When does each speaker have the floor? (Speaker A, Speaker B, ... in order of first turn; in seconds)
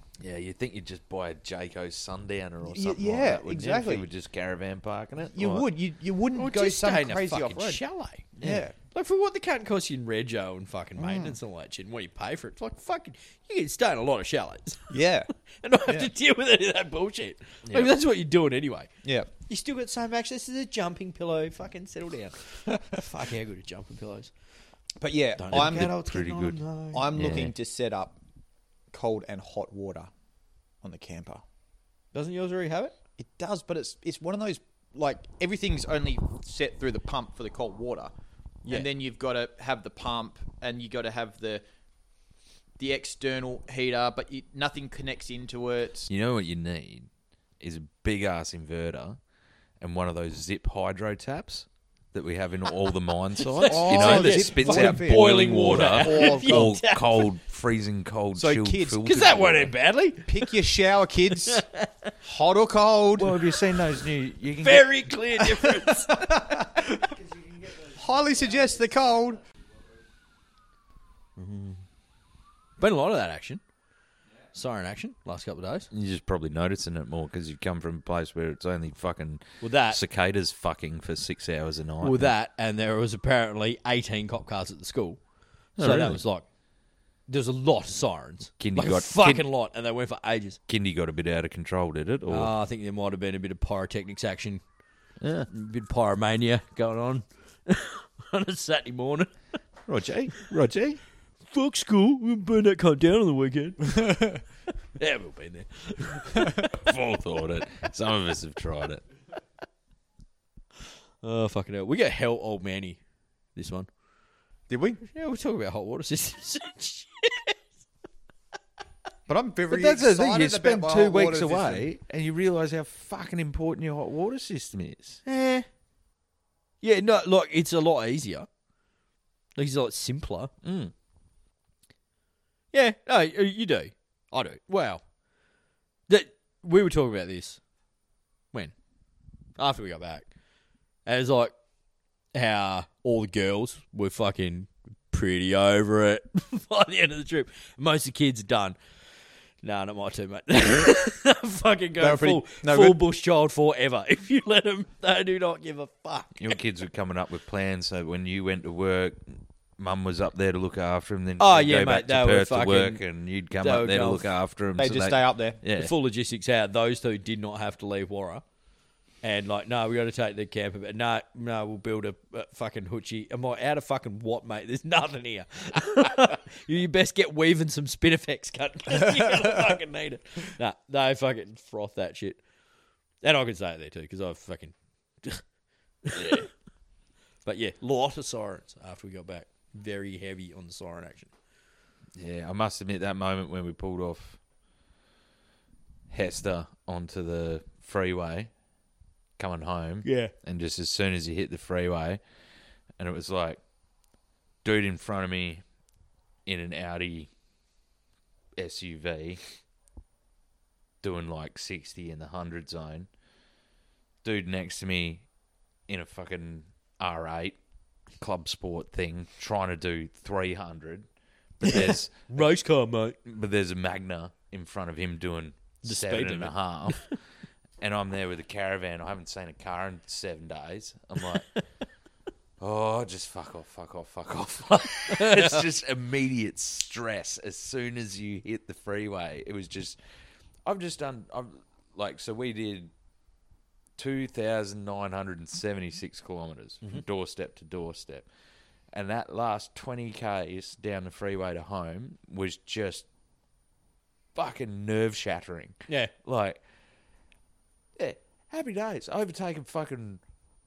Speaker A: 0.2-5.7, 8.4-8.7, 17.7-17.9, 25.5-27.5, 46.1-47.1, 47.6-49.2, 49.8-59.7, 63.2-65.0, 75.9-82.3, 85.8-86.2, 88.6-89.4, 90.7-92.5, 95.2-95.5, 99.9-101.0, 106.5-109.0, 119.7-125.2, 130.6-130.9, 156.3-165.9, 186.1-186.4, 192.2-194.4, 196.1-198.5, 199.4-202.2, 203.0-203.6, 204.6-205.6, 206.4-207.3, 208.6-209.4, 211.0-213.1, 214.2-215.2, 215.9-217.6, 218.2-221.1, 221.6-222.5, 223.2-227.1, 227.8-231.5, 232.6-240.0, 240.6-242.9, 244.0-248.2, 248.9-253.1, 254.3-256.6, 258.0-260.2
Speaker B: 2.6-4.1, 5.3-7.8, 8.4-8.7, 11.0-11.4, 14.9-15.3, 19.0-19.3, 25.0-26.0, 26.9-28.2, 28.9-30.1, 30.8-31.4, 33.2-38.1, 38.7-41.6, 42.8-46.1, 53.6-56.8, 58.3-59.0, 60.2-61.6, 62.2-63.4, 65.4-69.4, 114.7-115.0, 119.3-121.9, 152.0-153.0, 164.8-165.6
Speaker C: 6.3-8.4, 8.9-14.9, 15.6-18.9, 19.5-24.3, 25.4-27.1, 32.1-33.0, 53.4-57.2, 59.0-60.5, 61.4-62.1, 64.6-66.3, 71.4-71.8, 72.8-73.6, 74.5-75.9, 79.6-80.0, 82.0-85.2, 85.8-86.4, 87.3-90.6, 92.3-94.6, 95.5-99.3, 101.5-104.4, 105.0-106.7, 111.2-113.0, 113.5-113.9, 115.0-117.5, 125.2-125.7, 126.8-128.5, 129.6-130.5, 132.7-135.0, 136.1-137.6, 139.6-140.3, 141.1-141.5, 142.3-148.8, 149.6-156.6, 161.4-163.0, 163.6-164.3, 165.7-168.4, 169.2-182.4, 183.2-185.4, 186.0-186.5, 187.4-191.3, 200.0-200.3, 221.6-223.2, 225.8-227.1, 235.1-235.6